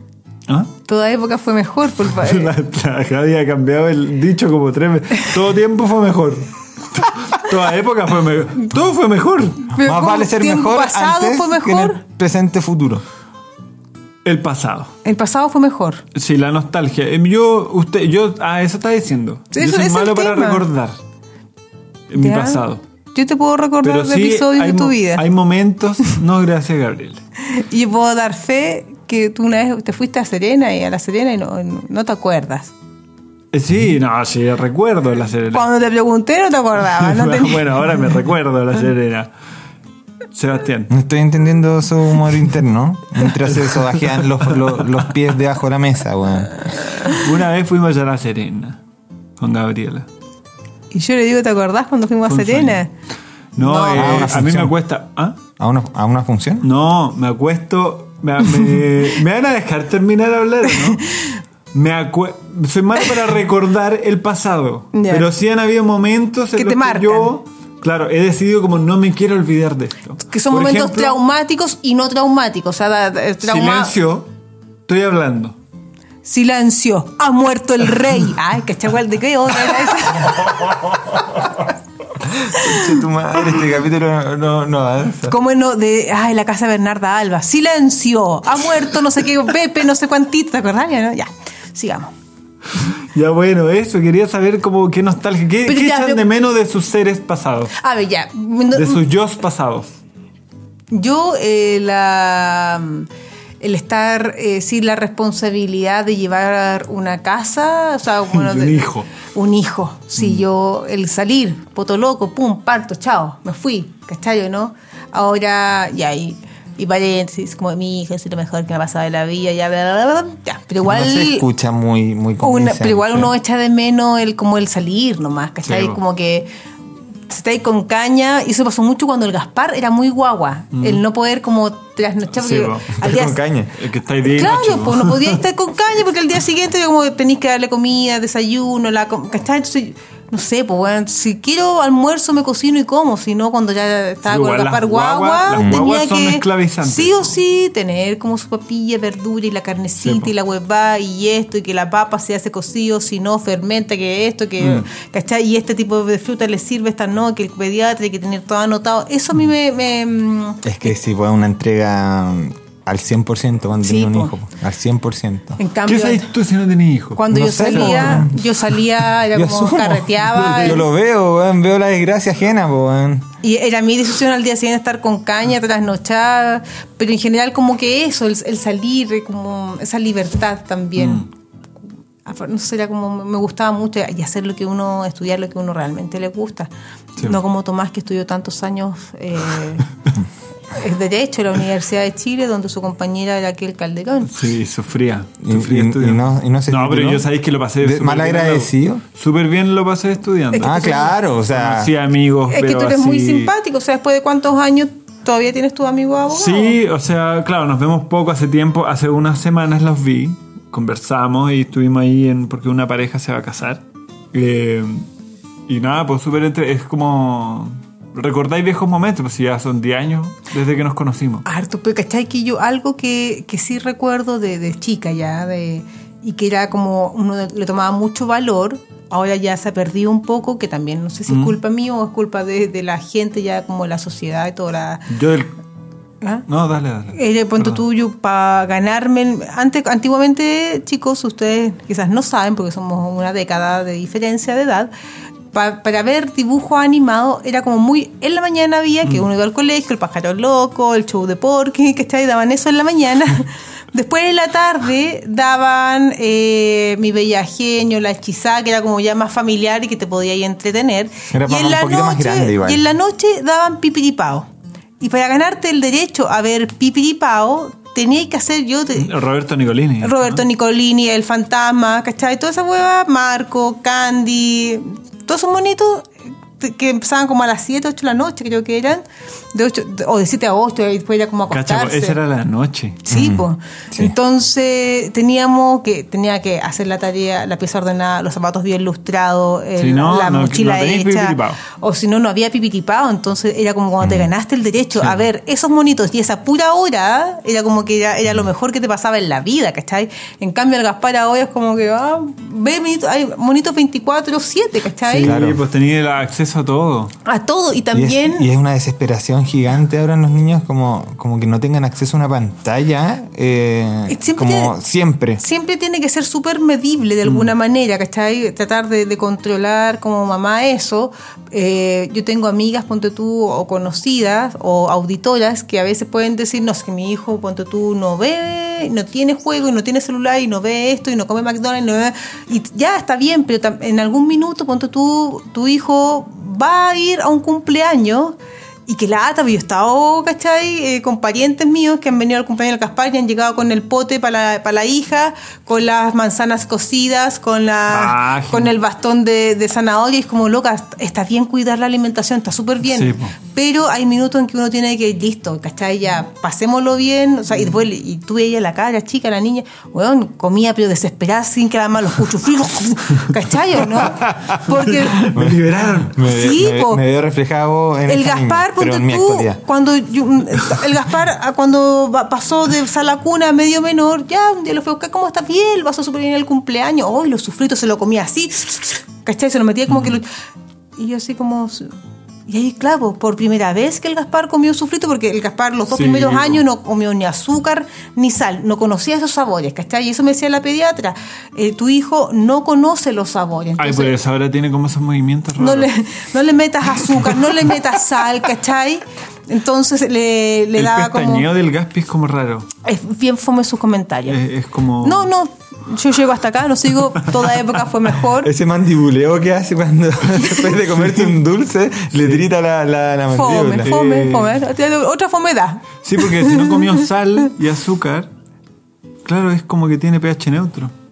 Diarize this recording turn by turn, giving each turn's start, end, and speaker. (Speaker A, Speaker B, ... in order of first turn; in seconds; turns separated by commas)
Speaker A: 0.5-0.7, Speaker B: 0.9-2.5, Speaker A: 2.1-9.8, Speaker B: 9.7-12.0, Speaker C: 9.8-13.0, Speaker A: 14.2-14.9, Speaker B: 15.0-16.0, Speaker A: 16.1-21.0, Speaker B: 19.5-20.7, Speaker A: 22.1-22.8, Speaker B: 22.2-25.2, Speaker A: 23.8-27.2, Speaker B: 27.5-32.7, Speaker A: 33.5-35.6, Speaker B: 35.5-38.0, Speaker A: 36.9-39.3, Speaker A: 40.3-40.9, Speaker C: 40.9-46.7, Speaker A: 43.7-44.8, Speaker A: 47.0-48.8, Speaker A: 49.4-50.1, Speaker B: 50.9-52.9, Speaker A: 52.3-52.8, Speaker A: 53.6-55.4, Speaker B: 53.6-54.3, Speaker C: 53.9-54.8, Speaker C: 55.6-56.7, Speaker A: 56.6-61.0, Speaker B: 60.9-61.3, Speaker A: 61.7-71.2, Speaker B: 64.9-65.3, Speaker B: 66.5-67.3, Speaker B: 70.3-73.9, Speaker A: 73.4-74.3, Speaker A: 74.9-75.6, Speaker B: 76.2-81.0, Speaker C: 82.2-85.4, Speaker B: 82.5-83.0, Speaker B: 85.3-92.1, Speaker A: 92.8-97.7, Speaker B: 95.7-96.2, Speaker B: 97.8-99.0, Speaker A: 98.7-100.0, Speaker B: 100.9-103.1, Speaker B: 103.6-121.5, Speaker A: 108.3-109.1, Speaker A: 110.2-110.4, Speaker C: 120.8-123.3, Speaker B: 122.4-126.5, Speaker A: 125.6-126.0, Speaker B: 127.3-133.4, Speaker A: 130.7-131.0, Speaker A: 132.4-133.0, Speaker C: 133.0-133.7, Speaker A: 133.8-135.4, Speaker B: 134.2-160.8, Speaker A: 144.3-147.4, Speaker C: 145.6-145.8, Speaker A: 150.0-150.3, Speaker A: 154.6-154.9, Speaker C: 160.6-165.6, Speaker B: 163.8-164.3, Speaker B: 165.6-166.3, Speaker A: 165.9-168.4, Speaker B: 167.2-170.9, Speaker C: 167.3-168.4, Speaker C: 169.3-173.3, Speaker A: 170.4-170.7, Speaker B: 173.4-181.3, Speaker A: 181.0-181.3, Speaker B: 182.3-186.7, Speaker B: 187.2-189.9, Speaker B: 190.7-194.4, Speaker A: 194.3-203.5, Speaker C: 195.4-197.3, Speaker C: 197.8-199.0, Speaker B: 200.5-201.2, Speaker C: 200.6-201.9, Speaker B: 202.5-206.8, Speaker A: 206.3-215.1, Speaker A: 215.7-221.4, Speaker B: 221.5-235.1, Speaker A: 231.3-231.6, Speaker A: 235.1-235.5, Speaker A: 236.5-237.8, Speaker B: 237.1-244.9, Speaker B: 245.5-264.5, Speaker C: 261.3-262.8, Speaker B: 265.0-269.1, Speaker A: 269.0-270.4, Speaker B: 270.0-282.2, Speaker A: 281.5-283.1, Speaker B: 283.1-305.4, Speaker C: 283.1-284.1, Speaker A: 289.8-291.6, Speaker C: 294.0-294.3, Speaker A: 305.1-307.1, Speaker C: 305.2-305.6, Speaker B: 307.2-308.5, Speaker C: 307.9-315.4, Speaker B: 314.1-314.8, Speaker B: 315.4-338.4, Speaker A: 317.2-317.5, Speaker B: 338.9-365.3, Speaker A: 347.9-348.7, Speaker A: 352.9-353.4, Speaker A: 363.9-366.2, Speaker C: 365.4-369.6, Speaker B: 366.2-367.0, Speaker B: 368.1-380.3, Speaker A: 379.9-380.2, Speaker B: 381.0-381.9, Speaker B: 382.5-394.2, Speaker A: 385.9-386.6, Speaker A: 393.8-395.9, Speaker B: 395.6-401.5, Speaker A: 397.0-397.7, Speaker A: 400.8-402.7, Speaker B: 402.8-404.4, Speaker A: 404.3-405.3, Speaker B: 405.0-408.5, Speaker C: 408.4-413.9, Speaker A: 410.9-411.3, Speaker A: 412.2-412.4, Speaker B: 413.3-417.1, Speaker A: 413.7-414.6, Speaker A: 416.0-418.3, Speaker A: 419.2-420.9